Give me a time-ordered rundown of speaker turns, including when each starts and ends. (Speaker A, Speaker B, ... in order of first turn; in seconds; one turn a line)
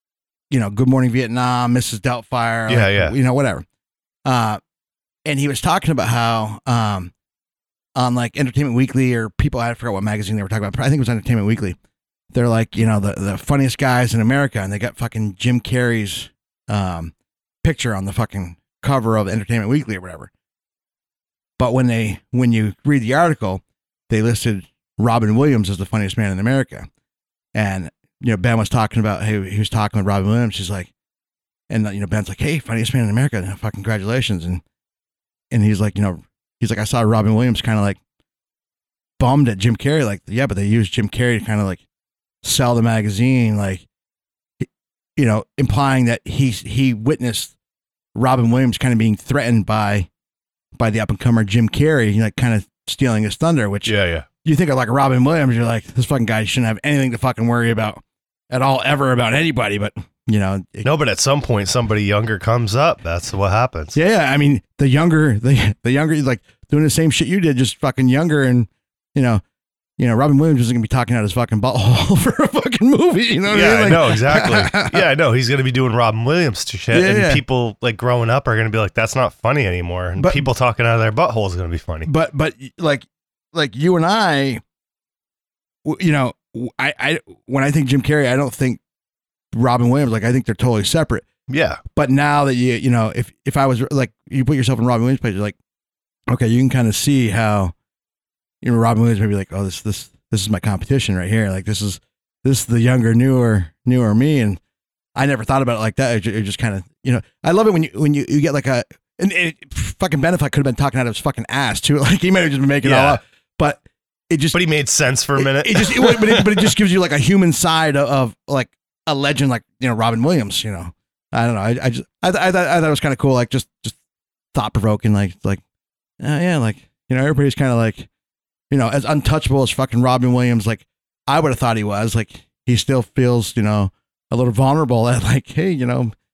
Speaker A: 0.5-3.6
Speaker B: 2.7-3.1
Speaker A: 4.2-4.6
Speaker A: 5.3-7.1
Speaker A: 8.0-11.8
Speaker A: 12.3-20.3
Speaker A: 21.6-26.9
Speaker A: 27.5-30.9
Speaker A: 31.7-34.6
Speaker A: 35.5-38.0
Speaker A: 39.2-41.8
Speaker A: 42.4-43.9
Speaker A: 44.6-47.5
Speaker A: 48.1-50.1
Speaker A: 50.8-60.9
Speaker B: 53.9-54.3
Speaker B: 60.8-64.0
Speaker A: 64.0-69.4
Speaker A: 70.0-75.0
Speaker B: 73.5-82.1
Speaker A: 76.9-77.4
Speaker A: 80.2-80.4
Speaker A: 82.0-84.6
Speaker A: 85.8-88.8
Speaker A: 89.5-91.3
Speaker B: 91.5-91.8
Speaker A: 92.0-95.6
Speaker A: 96.3-97.7
Speaker A: 98.6-104.6
Speaker A: 105.2-114.6
Speaker B: 112.8-113.2
Speaker B: 114.5-116.7
Speaker A: 115.4-124.0
Speaker A: 124.5-125.6
Speaker A: 126.2-128.1
Speaker A: 128.7-136.1